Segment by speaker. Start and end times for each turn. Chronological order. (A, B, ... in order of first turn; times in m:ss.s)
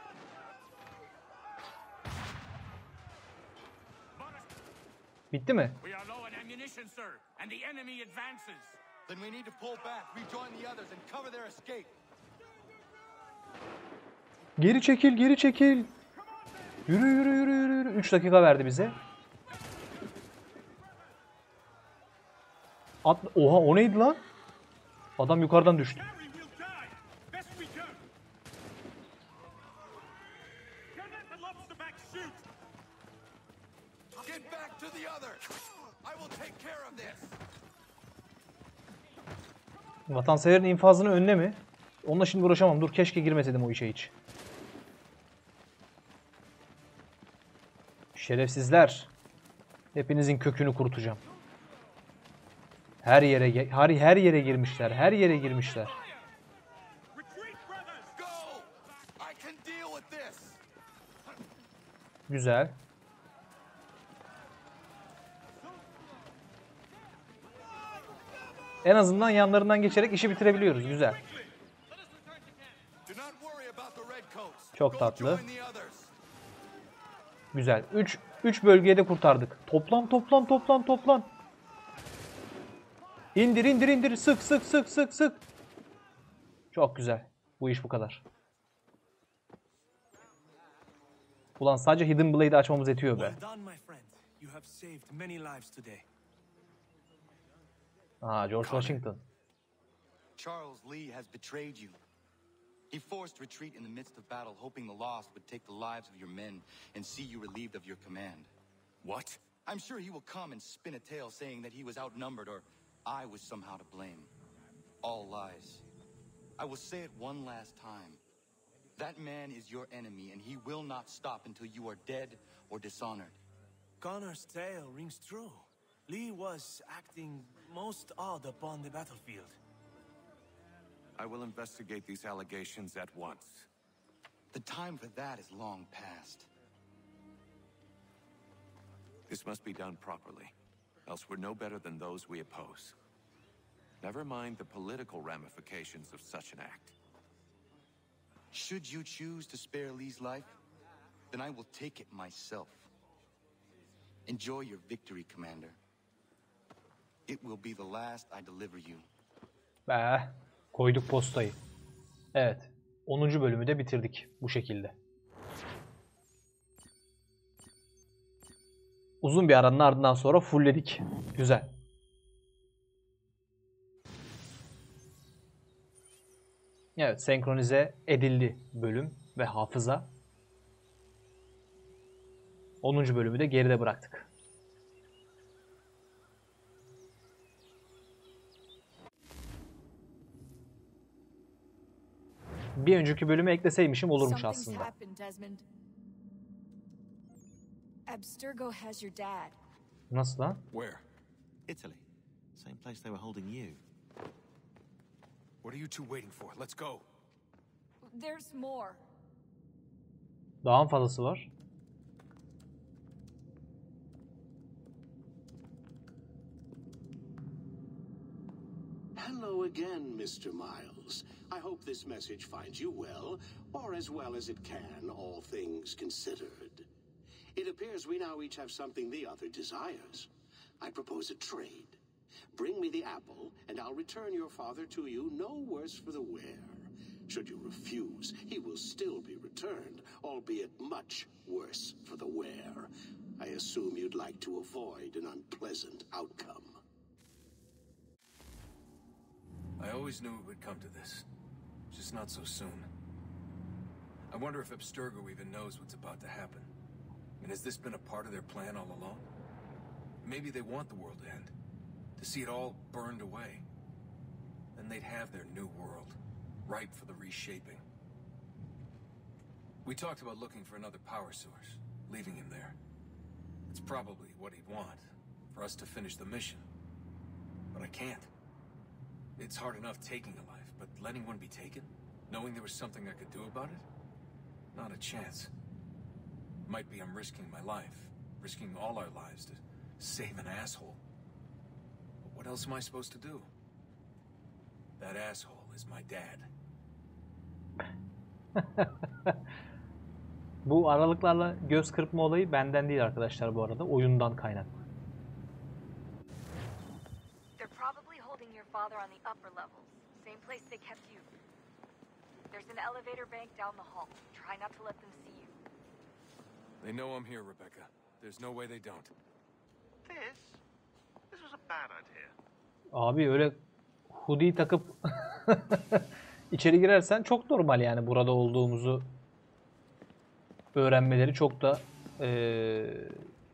0:05.3-0:05.8 A
0:05.8-0:08.7 B
0:09.1-0:12.0 C
0:14.6-0:15.9 A
0:16.9-0:19.0 A
0:23.0-0:24.2 A
0:25.2-0:26.0 A
0:26.0-0:28.0 D
0:30.9-0:32.4 D
0:34.2-0:35.4 C
0:36.0-0:37.3 C
0:40.1-0:44.1 A
0:48.2-0:49.1 A
0:50.0-0:51.2 A
0:53.0-0:56.0 A
0:57.1-0:58.1 D
0:58.1-1:00.6 C
1:02.3-1:02.8 A
1:08.8-1:11.2 A
1:13.1-1:16.1 C
1:14.8-1:15.4 A
1:17.5-1:21.3 A
1:23.4-1:25.4 A
1:26.7-1:28.2 A
1:31.6-1:33.4 A
1:33.2-1:36.0 D
1:38.2-1:39.2 A
1:38.6-1:39.0 C
1:40.4-1:42.0 C
1:42.9-1:48.5 C
1:49.0-1:49.4 E
1:49.6-1:54.3 C
1:55.0-1:55.8 C
1:56.6-1:58.2 C
1:59.0-2:03.4 C
2:04.0-2:09.6 D
2:11.2-2:13.7 E
2:14.5-2:16.5 C
2:19.3-2:20.6 E
2:21.1-2:23.0 E
2:24.0-2:27.0 E
2:28.5-2:30.6 C
2:31.3-2:32.9 C
2:34.3-2:35.8 C
2:37.3-2:39.1 C
2:39.9-2:41.6 A
2:42.3-2:45.0 A
2:49.2-2:51.7 A
2:57.0-3:00.1 A
3:02.8-3:04.3 A
3:12.8-3:14.9 A
3:14.2-3:15.6 F
3:18.1-3:19.6 F
3:20.1-3:20.6 A
3:20.7-3:21.0 G
3:21.7-3:23.8 H
3:25.6-3:27.1 G
3:28.0-3:29.0 F
3:30.6-3:31.5 A
3:39.2-3:46.9 I
3:47.6-3:50.3 I
3:50.8-3:52.0 I
3:52.5-4:06.8 I
4:09.8-4:11.3 G
4:11.9-4:12.9 G
4:14.3-4:16.7 G
4:17.4-4:19.3 G
4:20.2-4:21.5 G
4:22.2-4:23.6 G
4:24.8-4:27.8 G
4:29.8-4:32.8 G
4:33.7-4:36.6 G
4:37.7-4:38.3 G
4:39.4-4:43.8 G
4:44.7-4:45.5 G
4:46.7-4:51.0 G
4:52.2-4:53.5 G
4:55.0-4:56.5 G
4:58.6-4:59.4 A
5:00.7-5:04.7 A
5:07.6-5:11.3 F
5:12.5-5:15.6 F
5:16.8-5:19.1 G
5:20.1-5:20.6 H
5:22.9-5:23.6 A
5:24.1-5:29.1 A
5:30.8-5:33.3 A